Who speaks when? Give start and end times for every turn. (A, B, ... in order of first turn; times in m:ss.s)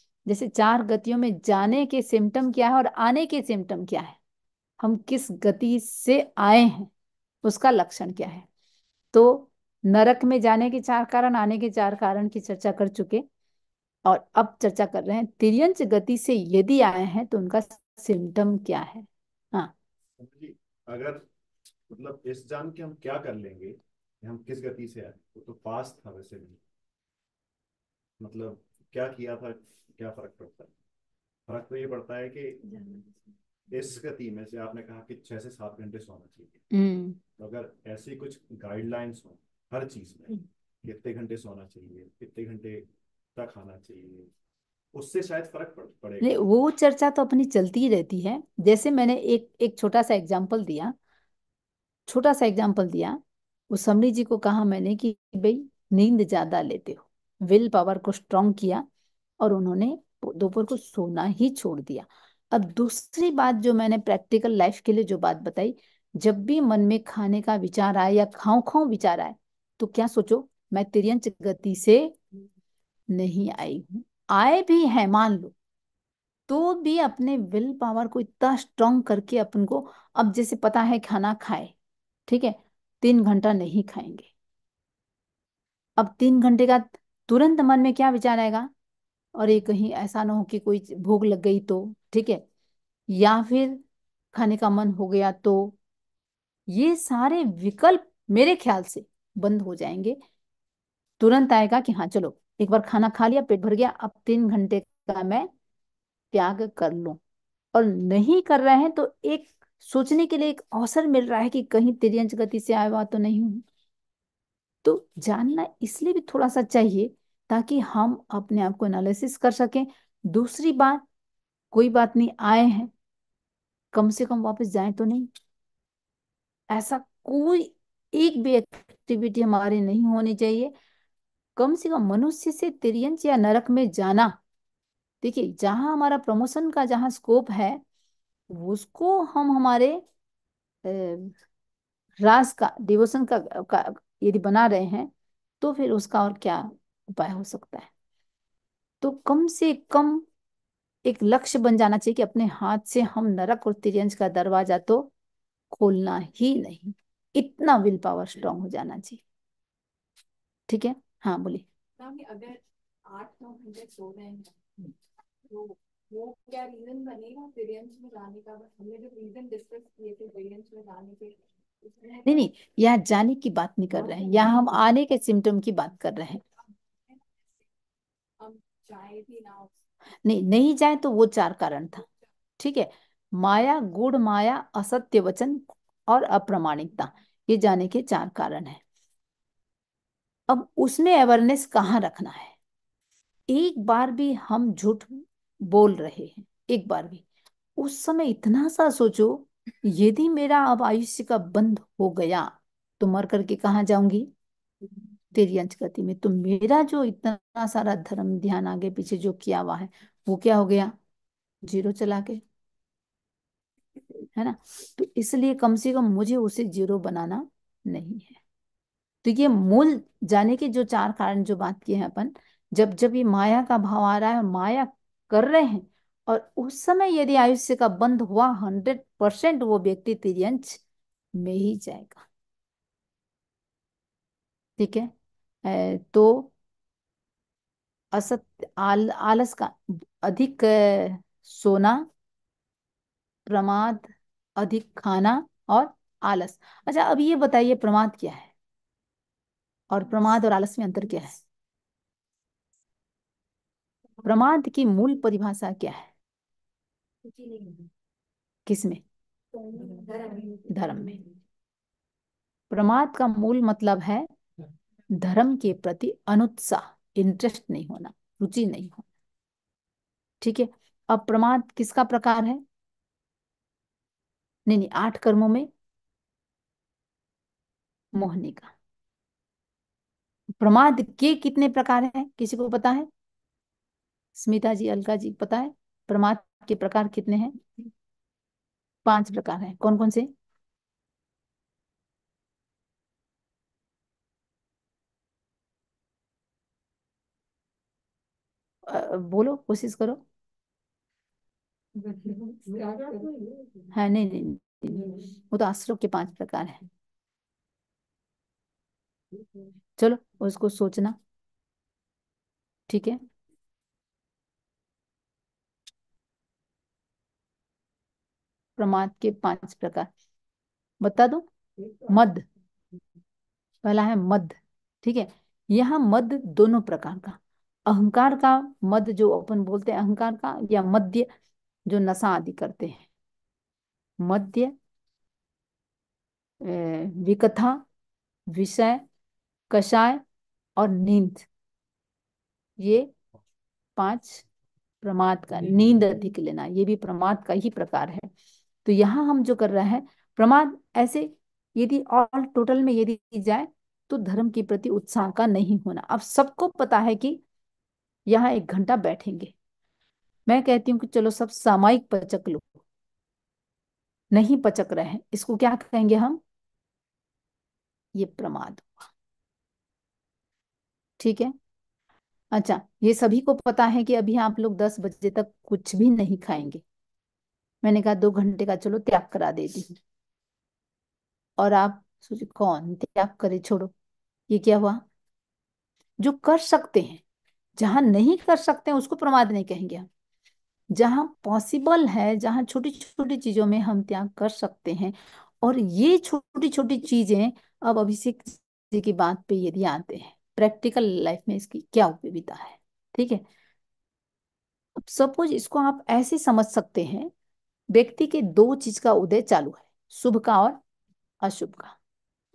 0:00.3-0:04.2 A
0:04.8-0:06.9 A
0:07.4-0:08.5 A
0:09.1-0:13.2 A
0:14.1-0:19.7 A
0:20.2-0:21.2 B
0:21.9-0:26.6 B
0:28.2-0:30.7 B
0:31.5-0:32.8 B
0:33.7-0:36.6 B
0:36.7-0:37.2 A
0:37.4-0:44.3 B
0:44.9-0:46.4 B
0:46.2-0:51.0 A
0:52.1-0:58.9 A
0:59.4-1:12.2 A
1:13.1-1:15.6 A
1:16.5-1:21.7 A
1:22.3-1:24.3 A
1:26.0-1:28.7 A
1:29.4-1:32.4 A
1:33.1-1:33.8 A
1:34.3-1:35.8 A
1:36.7-1:40.2 A
1:41.2-1:45.5 A
1:46.3-1:47.2 A
1:47.7-1:53.6 A
1:54.8-2:01.0 A
2:01.7-2:02.9 A
2:03.9-2:05.3 A
2:06.7-2:10.7 A
2:11.6-2:14.4 A
2:15.2-2:17.8 A
2:18.5-2:20.0 A
2:20.8-2:21.3 A
2:22.2-2:27.9 A
2:29.0-2:30.2 A
2:31.0-2:35.1 A
2:35.7-2:39.2 A
2:40.7-2:41.6 A
2:42.0-2:44.6 C
2:45.5-2:52.2 C
2:52.2-2:56.4 A
2:58.4-2:59.7 C
3:00.2-3:02.0 A
3:02.6-3:08.8 A
3:10.5-3:12.5 A
3:13.5-3:17.2 A
3:17.8-3:24.3 A
3:25.3-3:30.9 A
3:31.6-3:32.4 A
3:34.4-3:38.4 A
3:39.2-3:50.8 A
3:51.4-3:52.3 A
3:54.8-3:55.1 A
3:55.6-3:56.5 A
3:58.1-4:02.1 A
4:03.5-4:08.5 A
4:09.9-4:11.4 A
4:14.2-4:16.1 A
4:17.2-4:17.9 C
4:18.7-4:19.0 A
4:19.5-4:21.1 C
4:20.7-4:21.2 A
4:22.7-4:24.3 A
4:25.1-4:29.1 A
4:30.4-4:32.6 A
4:34.7-4:35.7 A
4:38.1-4:38.7 A
4:40.6-4:43.1 A
4:44.4-4:47.6 A
4:49.0-4:50.3 A
4:58.9-5:00.2 A
5:02.0-5:03.9 C
5:03.9-5:06.8 A
5:10.0-5:11.2 A
5:12.9-5:13.2 A
5:18.8-5:20.1 A
5:21.0-5:21.5 A
5:22.1-5:22.4 A
5:23.8-5:31.3 A
5:31.9-5:33.1 A
5:34.2-5:34.7 A
5:36.6-5:37.8 A
5:38.5-5:39.0 A
5:39.7-5:40.2 A
5:40.8-5:41.5 A
5:42.8-5:43.1 A
5:44.0-5:44.4 A
5:45.0-5:48.3 A
5:48.8-5:57.4 A
5:58.3-5:59.5 A
6:00.5-6:02.8 A
6:04.3-6:06.4 A
6:08.2-6:09.1 A
6:11.2-6:11.5 A
6:12.5-6:16.8 A
6:17.8-6:20.0 A
6:21.6-6:23.9 A
6:24.5-6:25.0 A
6:26.2-6:27.2 A
6:27.8-6:30.1 A
6:30.9-6:43.4 A
6:45.0-6:47.3 A
6:47.9-6:50.8 A
6:51.4-6:52.0 A